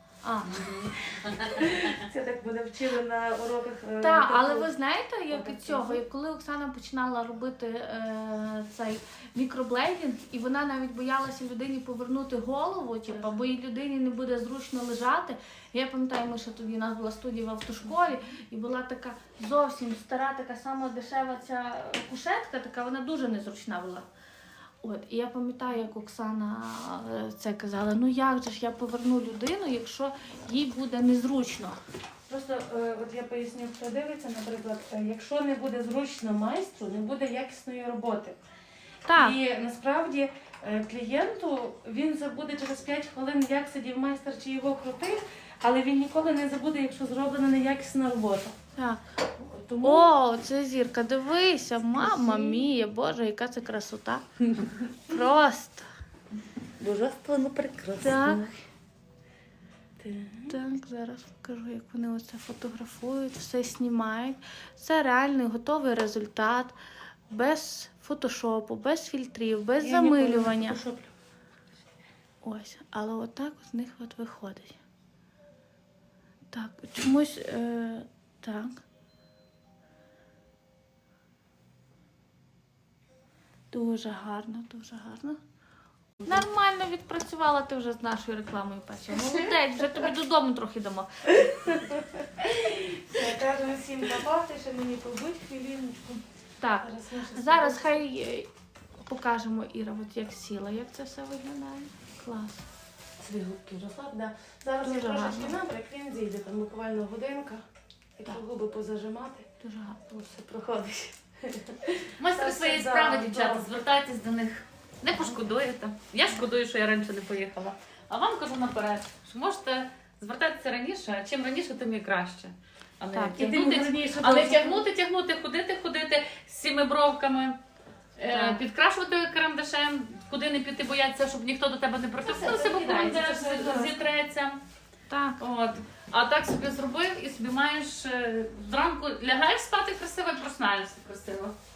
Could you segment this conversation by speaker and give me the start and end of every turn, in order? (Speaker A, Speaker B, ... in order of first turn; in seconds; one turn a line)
Speaker A: 0.2-0.5
Speaker B: 0.5-4.7
Speaker A: 4.0-24.1
Speaker B: 5.3-6.0
Speaker B: 13.1-13.5
Speaker A: 24.8-31.8
Speaker B: 32.3-38.4
Speaker A: 39.0-39.4
Speaker B: 39.1-48.5
Speaker A: 48.8-49.0
Speaker B: 49.4-50.1
Speaker A: 49.8-54.2
Speaker B: 51.9-52.6
Speaker A: 55.0-55.9
Speaker B: 56.8-58.5
Speaker A: 58.0-58.5
Speaker B: 60.0-60.5
Speaker A: 60.5-66.7
Speaker A: 67.3-70.8
Speaker B: 69.8-71.1
Speaker A: 72.4-74.8
Speaker A: 76.5-78.8
Speaker A: 83.7-85.4
Speaker A: 86.2-91.1
Speaker B: 91.5-96.2
Speaker A: 96.6-98.5
Speaker B: 96.8-97.9
Speaker A: 99.0-102.6
Speaker B: 103.2-107.6
Speaker A: 104.8-105.6
Speaker B: 108.2-109.5
Speaker A: 109.6-110.0
Speaker B: 110.1-113.7
Speaker C: 112.2-127.6
Speaker A: 123.1-123.4
Speaker B: 123.3-124.8
Speaker C: 128.2-134.6
Speaker A: 128.3-128.6
Speaker B: 132.2-134.0
Speaker A: 135.1-135.4
Speaker C: 135.4-141.5